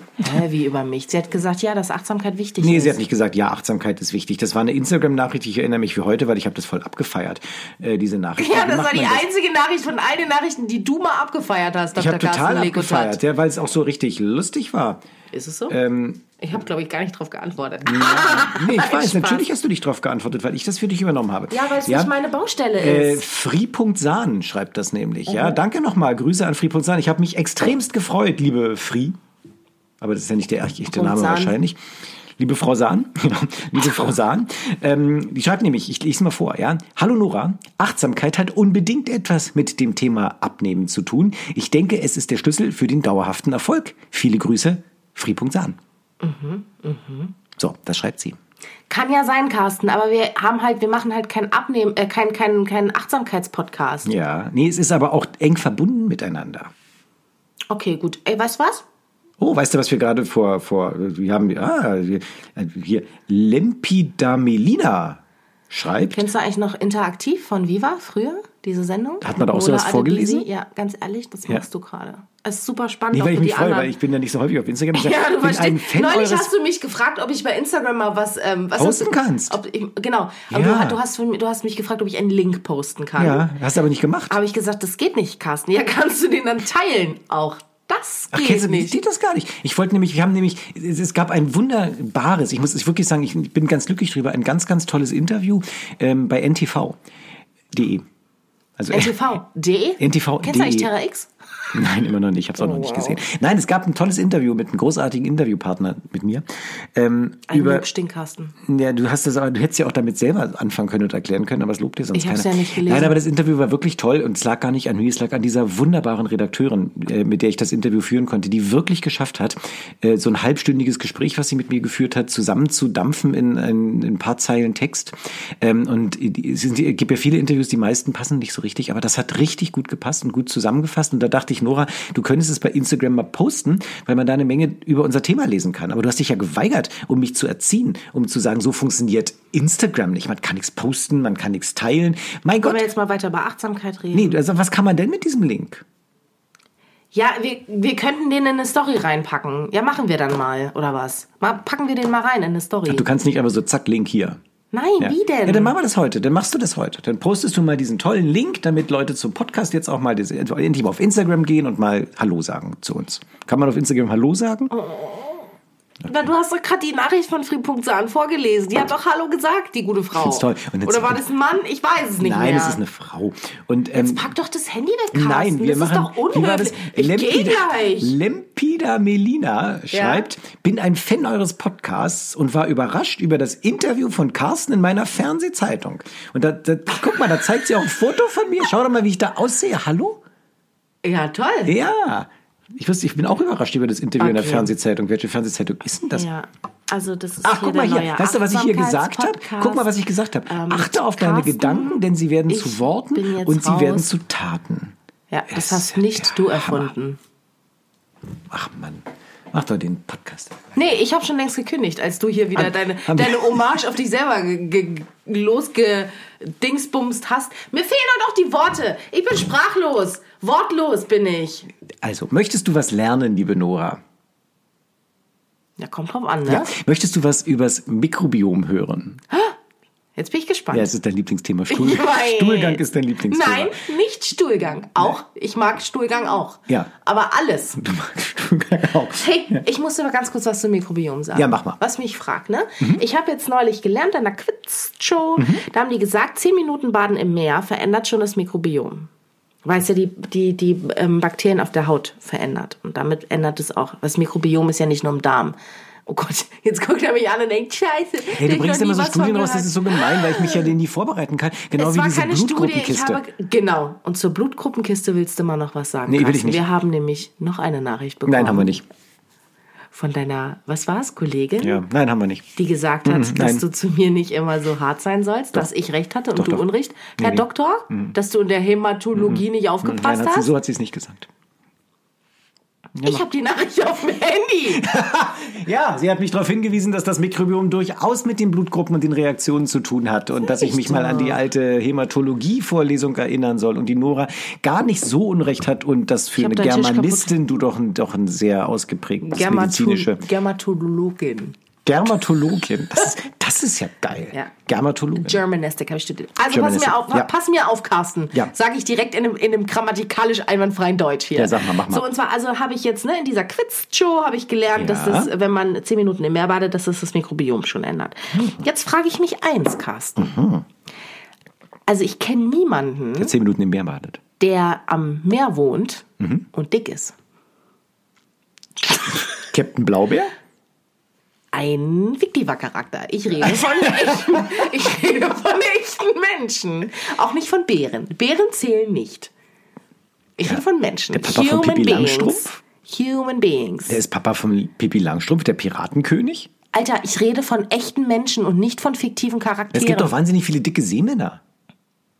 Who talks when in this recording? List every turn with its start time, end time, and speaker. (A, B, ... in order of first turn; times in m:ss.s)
0:00.2-0:03.0 A
0:02.6-0:09.3 B
0:08.4-0:13.2 A
0:12.0-0:15.0 B
0:15.3-0:15.8 A
0:15.7-0:16.2 B
0:16.4-0:19.5 A
0:17.8-0:22.1 B
0:21.5-0:23.2 A
0:22.8-0:29.2 B
0:25.3-0:25.6 A
0:30.0-0:31.8 B
0:30.9-0:31.6 A
0:32.4-0:45.8 B
0:46.2-0:47.4 A
0:47.6-0:48.4 B
0:48.9-0:54.1 A
0:54.0-0:56.7 B
0:57.7-0:58.8 A
0:59.4-1:06.2 B
1:06.1-1:13.9 A
1:09.2-1:10.5 B
1:13.1-1:16.5 B
1:14.9-1:23.5 A
1:18.8-1:19.6 B
1:20.5-1:21.0 B
1:23.2-1:24.4 B
1:24.3-1:29.0 A
1:28.3-1:37.0 B
1:37.7-1:38.0 B
1:38.8-1:39.2 B
1:38.9-1:41.3 A
1:40.0-1:40.9 B
1:41.7-1:47.9 B
1:42.6-1:43.2 A
1:47.5-1:48.5 A
1:48.6-2:22.9 B
1:52.1-1:53.2 A
2:22.6-2:24.4 A
2:24.1-2:25.8 B
2:27.1-2:33.1 A
2:32.9-2:34.4 B
2:34.7-2:35.8 A
2:35.0-2:44.7 B
2:44.7-2:45.5 A
2:46.0-2:52.8 A
2:50.2-2:51.2 B
2:52.2-2:54.3 B
2:54.0-2:58.2 A
2:55.1-3:10.2 B
2:59.9-3:00.3 A
3:11.0-3:11.8 A
3:11.7-3:16.3 B
3:14.2-3:14.7 A
3:16.1-3:19.9 A
3:17.4-3:25.0 B
3:20.5-3:24.1 A
3:25.3-3:27.2 A
3:25.5-3:26.9 B
3:28.5-3:30.6 B
3:30.8-3:41.7 A
3:32.6-3:33.8 B
3:42.0-3:44.0 B
3:45.8-3:46.7 A
3:46.5-3:49.2 B
3:50.2-3:50.9 A
3:50.7-3:53.8 B
3:51.7-3:57.8 A
3:57.8-3:59.6 B
3:59.1-4:09.1 A
4:01.3-4:01.8 B
4:05.4-4:05.6 B
4:09.6-4:20.7 A
4:18.3-4:23.2 B
4:21.8-4:28.8 A
4:26.1-4:26.6 B
4:28.3-4:28.8 B
4:29.9-4:31.8 A
4:31.6-4:32.5 B
4:32.6-4:40.5 A
4:33.0-4:33.6 B
4:36.4-4:36.6 B
4:37.2-4:38.1 B
4:39.2-4:41.3 B
4:43.0-4:43.2 B
4:43.0-4:44.9 A
4:44.7-5:00.2 B
4:50.4-4:51.4 A
4:56.4-4:57.3 A
4:59.2-5:01.6 A
5:01.8-5:05.4 B
5:05.2-5:20.3 A
5:06.5-5:07.3 B
5:11.4-5:12.0 B
5:14.7-5:15.3 B
5:18.3-5:18.6 B
5:20.2-5:20.6 B
5:21.9-5:23.3 A
5:23.2-5:24.2 B
5:24.4-5:27.2 A
5:26.2-5:26.5 B
5:29.1-5:30.3 B
5:31.5-5:39.3 A
5:33.5-5:34.5 B
5:40.4-5:44.0 A
5:40.4-5:42.6 B
5:43.9-5:46.5 B
5:46.7-5:50.1 A
5:49.7-5:51.4 B